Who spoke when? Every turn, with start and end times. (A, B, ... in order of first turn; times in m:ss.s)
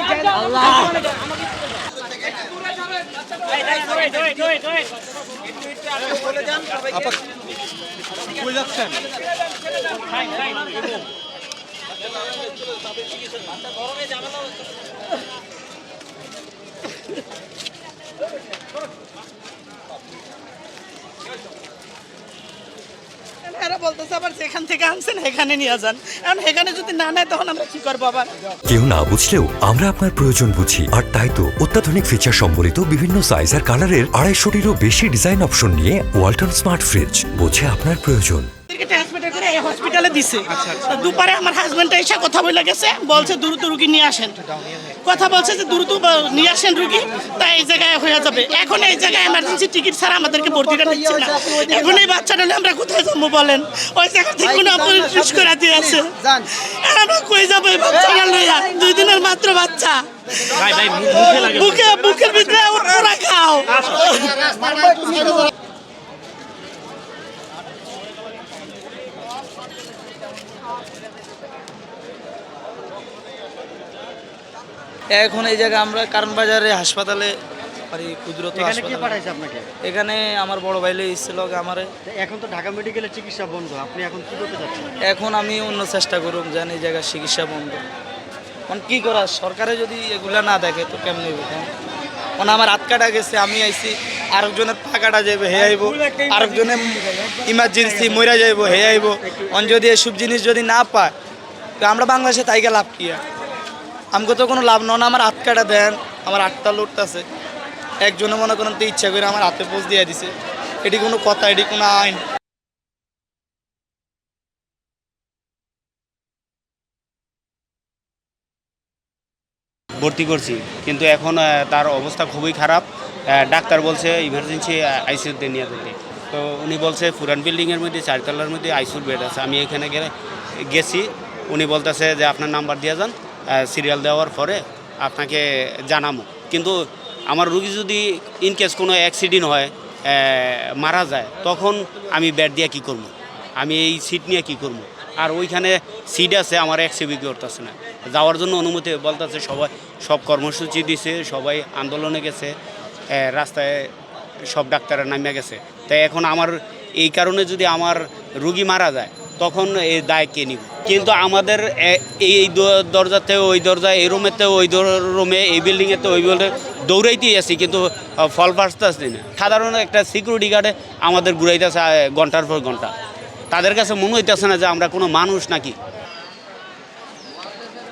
0:23.4-0:28.3 A
0:28.7-0:38.5 B
0:38.7-1:05.5 A
1:15.1-1:17.3 C
1:17.9-1:19.2 C
1:18.6-1:19.7 D
1:19.8-1:21.9 C
1:22.1-1:24.9 D
1:25.0-1:27.8 C
1:28.7-1:31.7 C
1:32.4-1:41.1 C
1:41.8-1:43.2 C
1:44.1-1:47.2 C
1:48.0-1:50.3 C
1:50.8-1:52.2 C
2:00.0-2:10.1 E
2:10.7-2:32.5 E
2:33.1-2:33.9 E
2:34.5-2:52.9 E
2:53.5-2:55.8 E